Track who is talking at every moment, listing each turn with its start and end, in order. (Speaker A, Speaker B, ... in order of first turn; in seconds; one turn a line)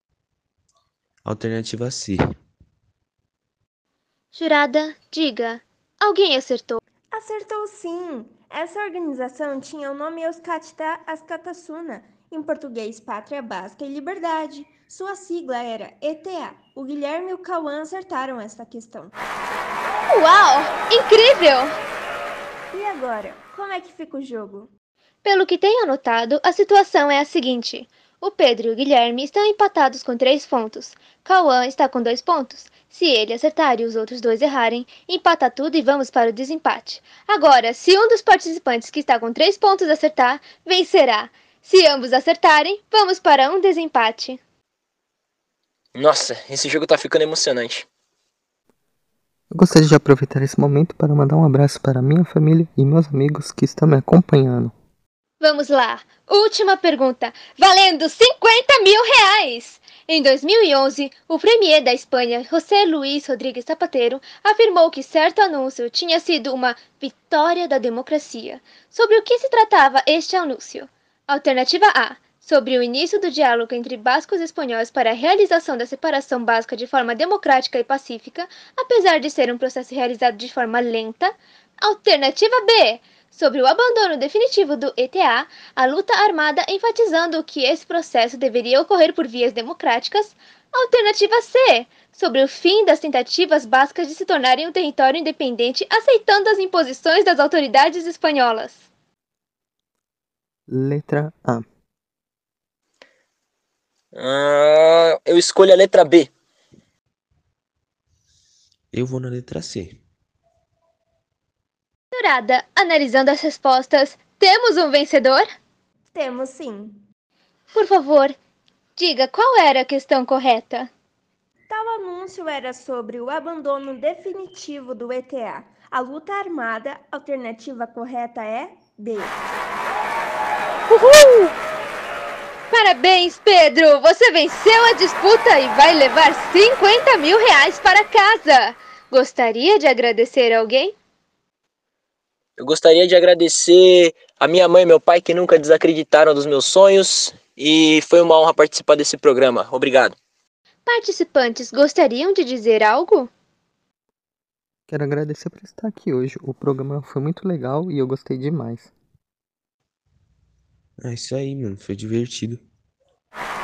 Speaker A: 1.2-2.2
Speaker B: 4.3-6.8
Speaker C: 7.1-19.1
Speaker B: 20.1-21.7
Speaker C: 22.7-24.7
Speaker B: 25.2-44.4
Speaker D: 46.0-47.9
Speaker E: 49.5-54.7
Speaker B: 55.4-98.9
Speaker E: 100.7-101.7
Speaker D: 104.2-106.3
Speaker A: 108.9-110.0
Speaker B: 112.1-115.5
Speaker C: 116.1-117.0
Speaker B: 117.7-118.4
Speaker B: 119.0-120.9
Speaker C: 121.7-129.4
Speaker B: 130.9-131.5
Speaker B: 132.7-140.9
Speaker D: 142.6-150.2
Speaker B: 150.9-153.3
Speaker E: 154.9-158.9
Speaker A: 161.0-162.6